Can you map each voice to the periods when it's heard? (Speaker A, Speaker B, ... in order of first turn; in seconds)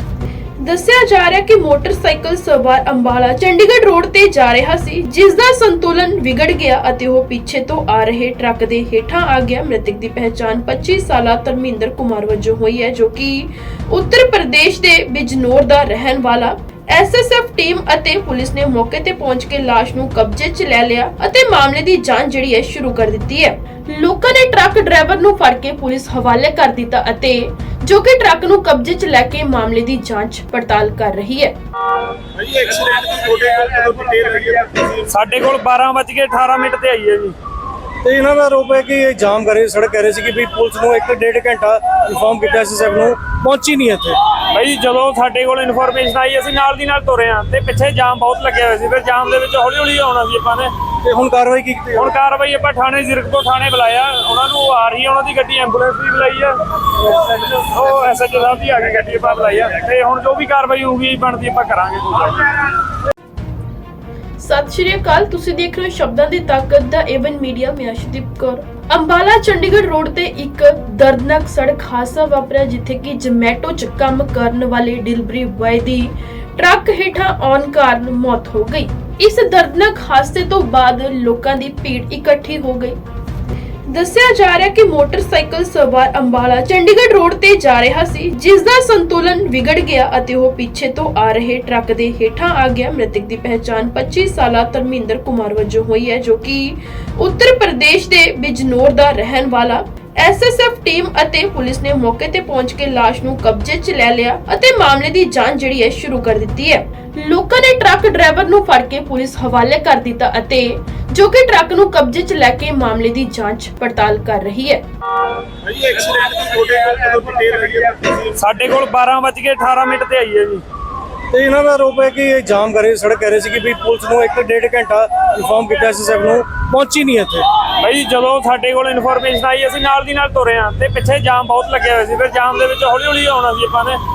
Speaker A: 0.6-31.6, 64.4-83.0, 83.9-114.8
Speaker B: 32.6-34.9, 115.7-118.2
Speaker C: 35.0-37.4, 44.5-50.7, 52.0-62.7, 118.3-120.6, 127.8-134.0
Speaker D: 38.0-44.2, 51.0-52.1, 121.3-127.5